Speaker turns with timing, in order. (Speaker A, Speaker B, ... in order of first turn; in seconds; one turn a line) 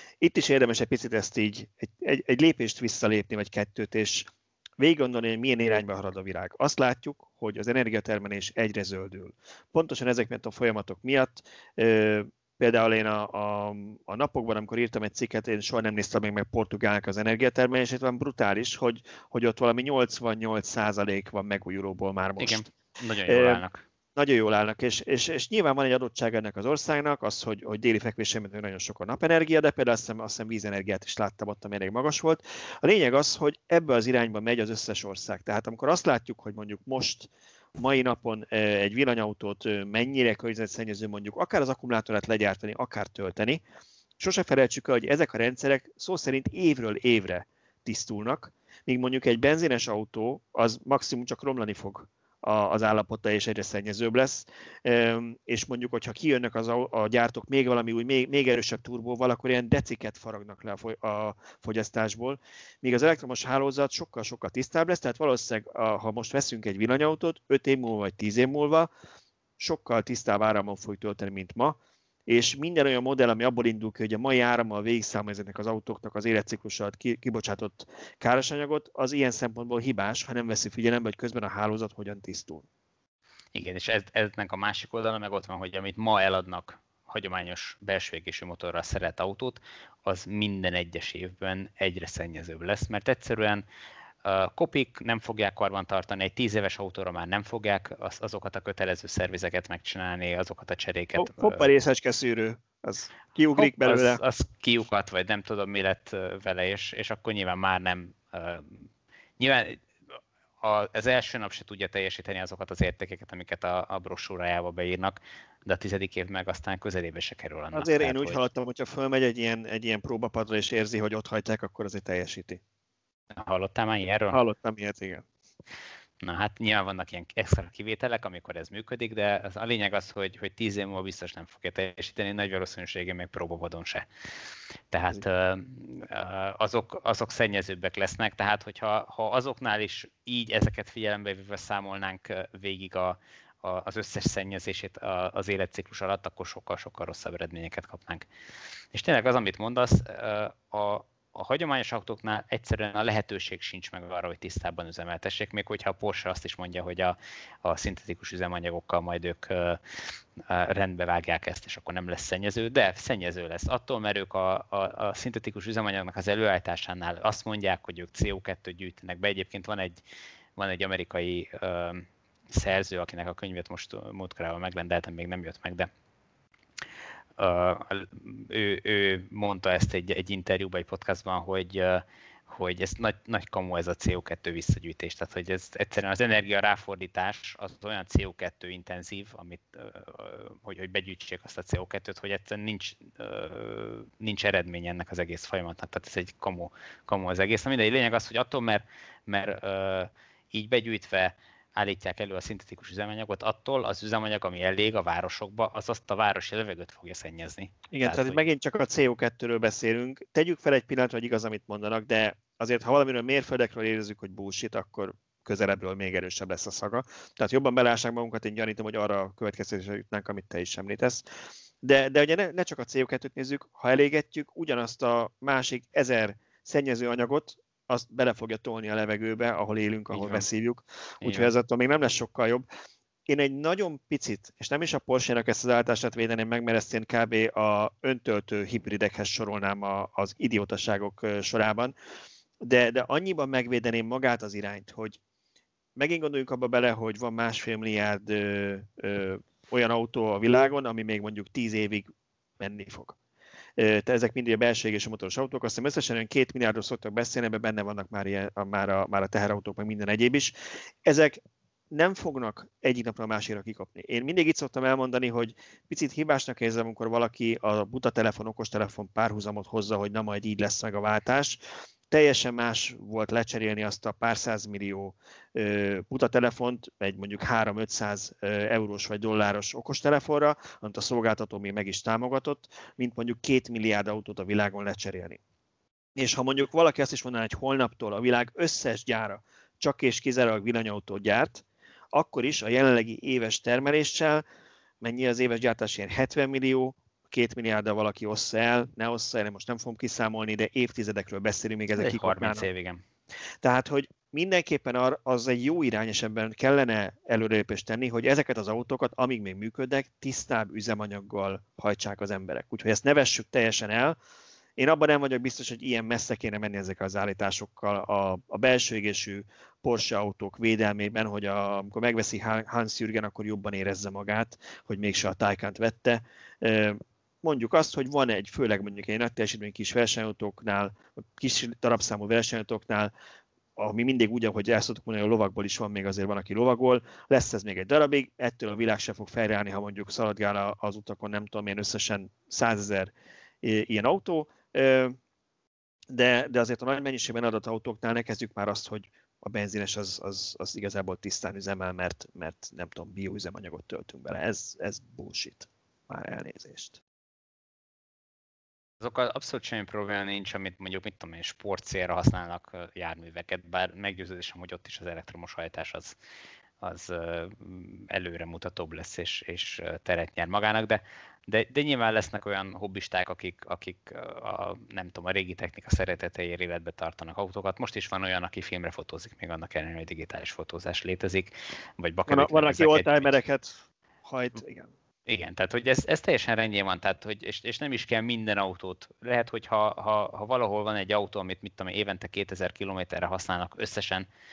Speaker A: 0.2-22.7
Speaker B: 22.4-23.9
Speaker A: 23.3-23.6
Speaker A: 24.1-43.6
Speaker A: 44.2-68.9
Speaker A: 69.6-82.7
Speaker B: 83.5-93.6
Speaker B: 94.2-101.7
Speaker A: 101.2-104.2
Speaker B: 103.6-109.9
Speaker B: 110.6-118.4
Speaker A: 117.7-122.6
Speaker B: 123.3-124.4
Speaker A: 124.3-125.2
Speaker B: 126.2-134.0
Speaker B: 134.9-148.3
Speaker B: 148.9-159.8
Speaker B: 160.4-169.9
Speaker B: 170.6-175.9
Speaker B: 177.4-208.4
Speaker A: 207.9-232.6
Speaker B: 230.1-230.4
Speaker B: 231.2-231.5
Speaker A: 233.3-241.9
Speaker A: 242.6-245.2
Speaker A: 245.9-252.1
Speaker A: 252.6-253.2
Speaker A: 253.8-261.4
Speaker A: 261.9-271.6
Speaker A: 272.1-285.4
Speaker A: 286.1-294.4
Speaker A: 295.0-302.6
Speaker B: 301.9-303.0
Speaker A: 303.6-314.2
Speaker A: 314.8-333.1
Speaker A: 333.8-345.2
Speaker A: 346.1-357.0
Speaker B: 359.0-366.1
Speaker B: 366.8-383.3
Speaker A: 382.3-384.9
Speaker B: 385.3-394.3